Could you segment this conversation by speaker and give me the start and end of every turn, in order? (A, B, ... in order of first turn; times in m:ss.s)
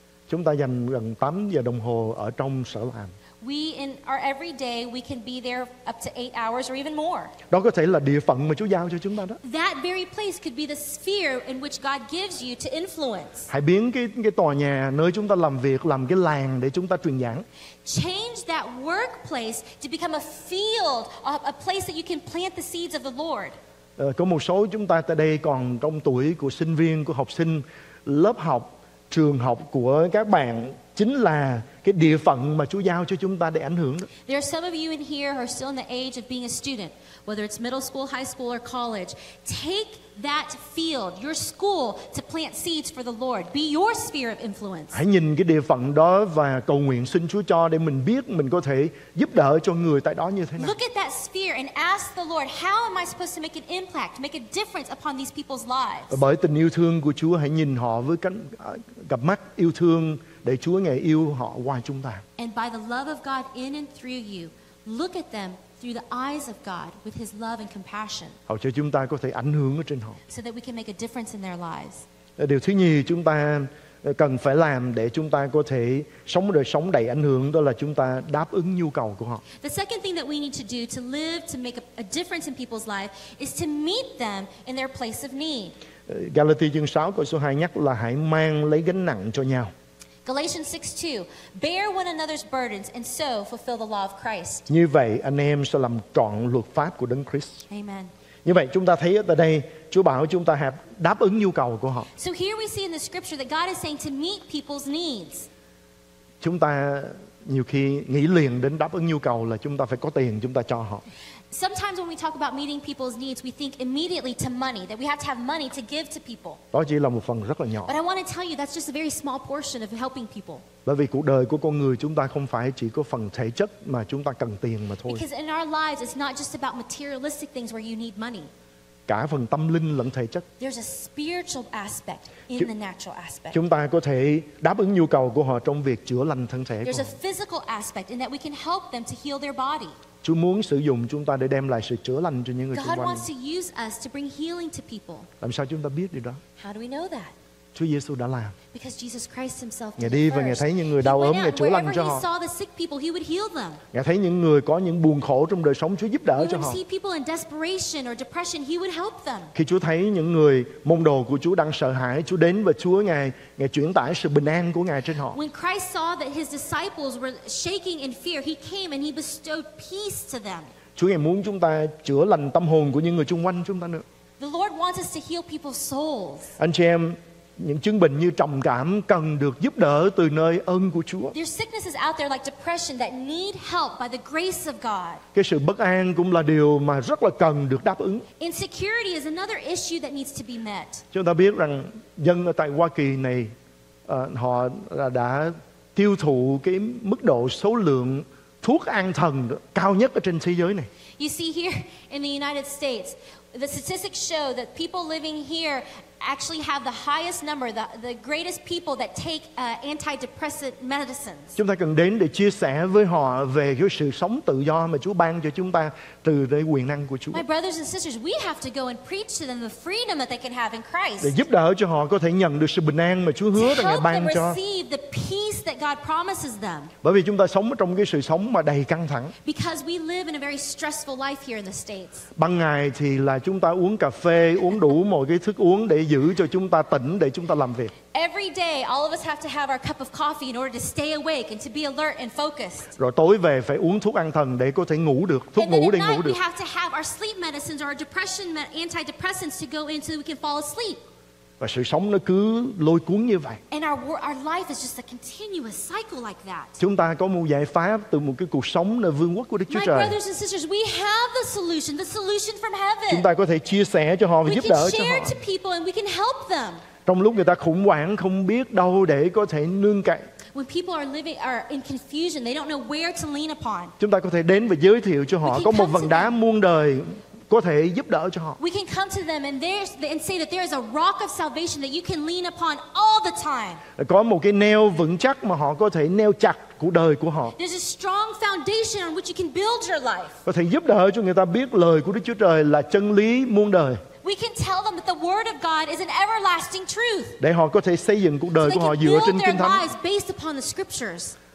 0:00.3-0:03.1 A
0:03.4-0:07.3 B
0:07.5-0:09.4 A
0:09.4-0:13.5 B
0:13.5-0:17.4 A
0:17.8-0:23.6 B
0:24.0-0:34.1 A
0:34.3-0:45.0 B
0:44.9-0:50.8 A
0:50.6-0:56.2 B
0:56.1-1:02.2 A
1:02.4-1:08.4 B
1:08.5-1:10.2 A
1:10.3-1:12.0 B
1:12.4-1:19.4 A
1:19.6-1:25.7 B
1:26.1-1:29.7 A
1:30.2-1:34.7 B
1:34.7-1:37.6 A
1:37.7-1:38.1 B
1:38.4-1:42.1 A
1:42.2-1:45.5 B
1:46.4-1:51.0 A
1:51.5-1:56.6 B
1:56.7-1:57.9 A
1:57.8-2:00.6 B
2:00.8-2:05.2 A
2:05.0-2:08.5 B
2:09.1-2:10.4 A
2:10.6-2:13.6 B
2:13.5-2:17.1 A
2:16.8-2:20.0 B
2:20.2-2:23.2 A
2:22.7-2:25.3 B
2:25.4-2:26.4 A
2:26.6-2:27.3 B
2:27.7-2:28.6 A
2:28.7-2:33.8 B
2:30.0-2:32.2 A
2:33.9-2:36.8 A
2:36.4-2:39.5 B
2:39.5-2:45.4 A
2:45.3-2:50.7 B
2:51.0-2:54.0 A
2:54.4-2:56.5 B
2:56.6-3:01.3 A
3:01.3-3:05.2 B
3:05.3-3:08.2 A
3:08.4-3:11.0 B
3:11.1-3:13.5 A
3:14.1-3:20.9 A
3:21.2-3:31.6 B
3:31.6-3:37.4 A
3:37.3-3:41.4 B
3:41.2-3:44.6 A
3:43.5-3:46.9 B
3:47.0-3:49.3 A
3:49.4-3:52.3 B
3:52.4-3:57.9 A
3:58.1-4:02.9 B
4:03.0-4:06.4 A
4:05.6-4:11.0 B
4:11.6-4:13.6 A
4:13.7-4:16.8 B
4:16.8-4:20.2 A
4:19.7-4:23.3 B
4:23.1-4:25.4 A
4:24.4-4:26.8 B
4:27.0-4:30.2 A
4:30.5-4:33.9 B
4:34.0-4:38.6 A
4:35.4-4:36.3 B
4:38.6-4:43.8 B
4:44.0-4:47.5 A
4:47.6-4:50.4 B
4:50.4-4:54.0 A
4:54.2-4:57.4 B
4:57.4-4:59.8 A
4:58.6-5:01.3 B